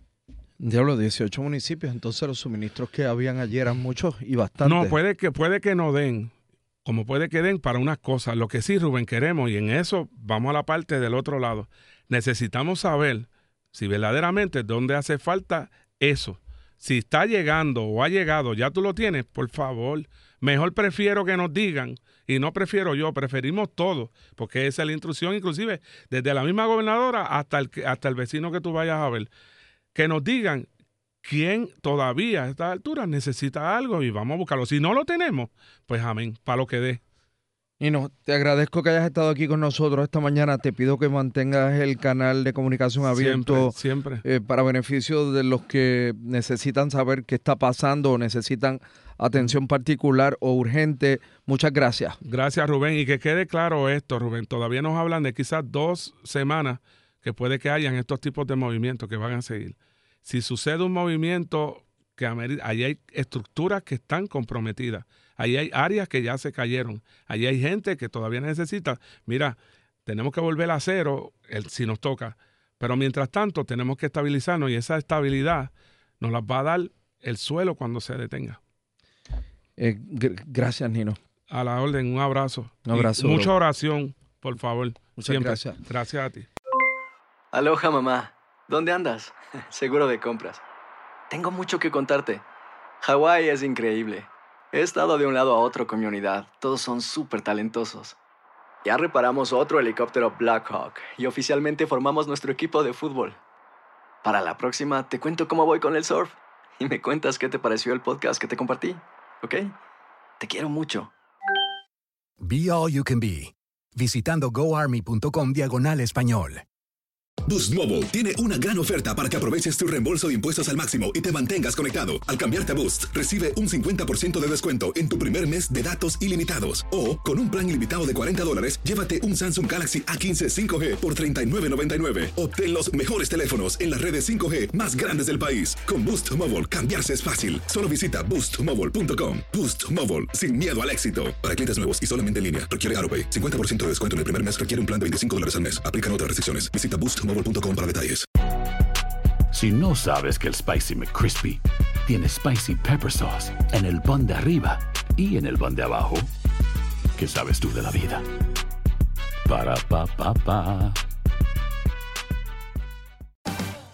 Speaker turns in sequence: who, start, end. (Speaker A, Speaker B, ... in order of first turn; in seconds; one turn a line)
Speaker A: 0.6-5.0
Speaker B: 4.6-6.3
Speaker B: 6.8-29.3
Speaker B: 29.9-30.7
Speaker B: 31.2-37.0
Speaker A: 37.8-52.2
Speaker B: 43.0-44.2
Speaker B: 52.2-78.6
Speaker A: 79.8-81.2
Speaker B: 81.5-86.5
Speaker A: 82.9-83.5
Speaker A: 85.2-85.8
Speaker C: 87.5-90.6
Speaker C: 91.3-92.4
Speaker C: 93.0-98.2
Speaker C: 98.8-103.4
Speaker C: 104.2-109.7
Speaker C: 110.4-111.1
Speaker D: 112.4-116.6
Speaker E: 117.5-148.3
Speaker F: 149.5-156.3
Speaker F: 157.2-158.2
Speaker F: 159.5-161.0